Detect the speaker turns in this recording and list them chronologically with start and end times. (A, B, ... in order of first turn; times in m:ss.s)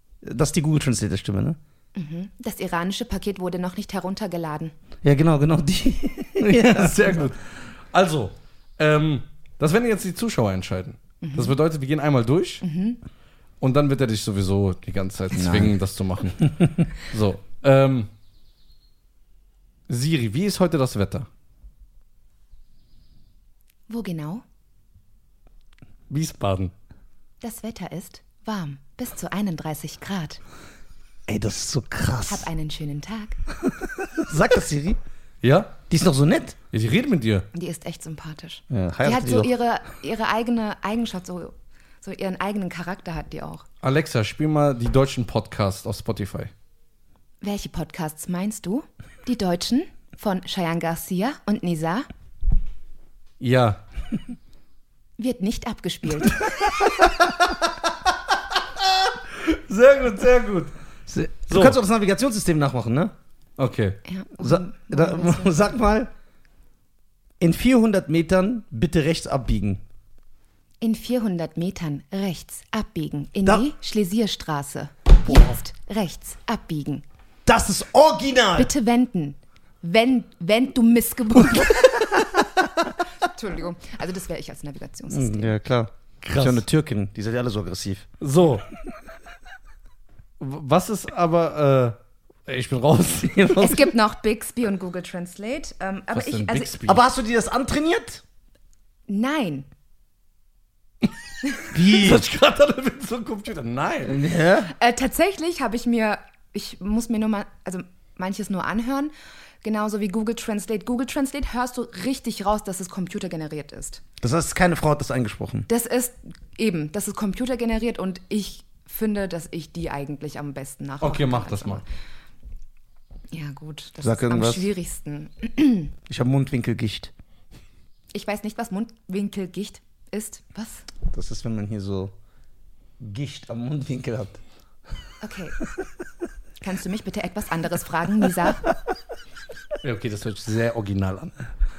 0:00.2-0:01.6 A
0:01.9-0:04.7 B
0:05.0-0:07.2 A
0:06.4-0:12.6 C
0:11.2-0:11.5 B
0:12.6-0:13.0 B
0:13.6-0:18.1 C
0:15.4-0:15.8 A
0:19.9-0:21.3 C
0:23.9-0:24.4 B
0:26.1-0:26.7 C
0:27.4-0:30.4 B
0:31.3-0:32.5 A
0:32.3-0:33.4 B
0:34.0-0:35.0 A
0:35.4-0:35.8 C
0:35.9-0:36.6 A
0:36.7-0:37.4 C
0:37.5-0:43.6 B
0:38.7-0:39.5 A
0:43.8-0:46.5 C
0:47.4-0:52.1 B
0:53.4-0:53.8 C
0:55.2-0:56.5 B
0:56.8-0:57.7 C
0:58.8-1:00.7 C
1:01.1-1:03.1 A
1:01.5-1:01.8 C
1:03.6-1:04.0 C
1:04.0-1:05.7 B
1:04.4-1:06.1 A
1:07.4-1:09.8 A
1:10.8-1:17.0 B
1:17.4-1:18.7 A
1:18.6-1:22.5 B
1:23.0-1:25.5 B
1:25.1-1:28.1 A
1:26.2-1:26.6 C
1:28.2-1:28.6 C
1:30.4-1:33.7 C
1:33.3-1:33.9 A
1:33.5-1:36.8 B
1:36.1-1:37.0 C
1:36.9-1:38.2 A
1:39.1-1:39.7 B
1:41.7-1:42.2 A
1:41.8-1:44.2 C
1:44.0-1:44.7 A
1:44.7-1:54.0 B
1:54.2-1:55.7 A
1:55.7-2:01.8 B
2:01.0-2:01.8 C
2:03.3-2:05.9 B
2:04.0-2:04.7 A
2:06.1-2:07.1 A
2:08.1-2:10.8 B
2:11.1-2:12.1 A
2:13.0-2:14.4 A
2:15.2-2:15.6 B
2:16.6-2:18.6 B
2:19.8-2:21.3 C